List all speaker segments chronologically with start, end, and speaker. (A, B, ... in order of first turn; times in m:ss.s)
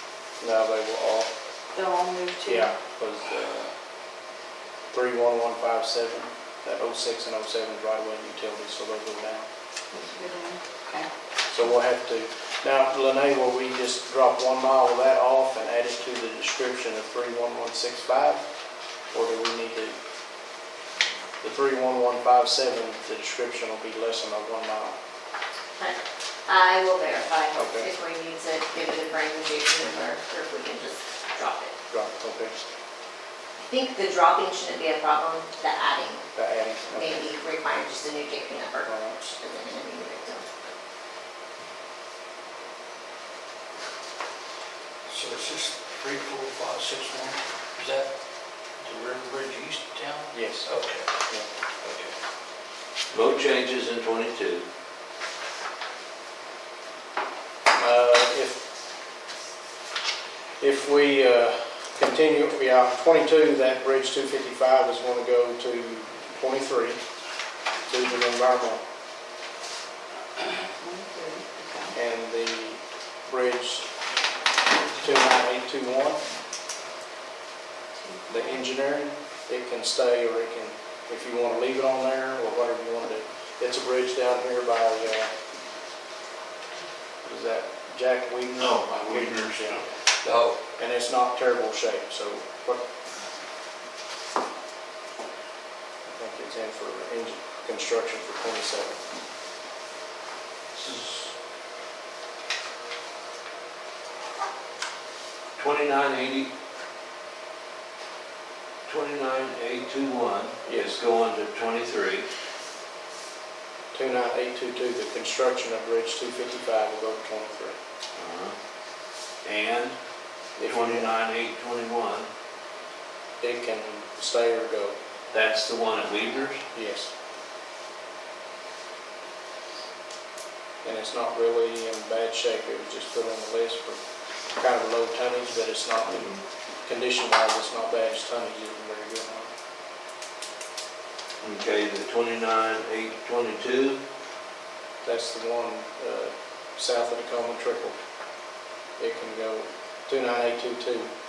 0:00.4-0:01.3 A
0:01.7-0:02.7 B
0:02.4-0:03.7 A
0:04.9-0:09.5 A
0:09.9-0:11.1 B
0:11.5-0:18.4 A
0:19.1-0:20.0 A
0:21.4-0:25.0 A
0:25.8-0:31.7 C
0:27.5-0:27.9 A
0:31.9-0:32.6 A
0:33.6-0:36.2 C
0:36.3-0:37.3 A
0:37.0-0:40.4 C
0:38.8-0:39.2 A
0:45.3-0:48.0 D
0:48.8-0:50.8 D
0:50.3-0:50.6 A
0:53.1-0:54.6 E
0:57.8-0:58.6 A
1:00.6-1:07.0 A
1:07.9-1:08.8 A
1:10.5-1:11.9 B
1:11.9-1:13.8 A
1:14.9-1:16.2 A
1:18.0-1:18.6 B
1:18.3-1:25.3 A
1:27.2-1:29.8 A
1:30.8-1:32.8 A
1:36.1-1:39.0 A
1:40.7-1:41.3 E
1:45.6-1:46.5 E
1:48.8-1:52.3 E
1:50.6-1:51.0 A
1:53.9-1:57.8 A
1:58.2-1:58.6 E
1:59.4-2:00.0 E
2:00.6-2:01.1 A
2:00.6-2:02.3 E
2:03.4-2:04.9 A
2:05.3-2:06.6 E
2:06.7-2:07.1 A
2:10.8-2:14.0 A
2:14.5-2:19.5 A
2:21.4-2:24.0 E
2:25.0-2:28.0 A
2:29.0-2:31.1 A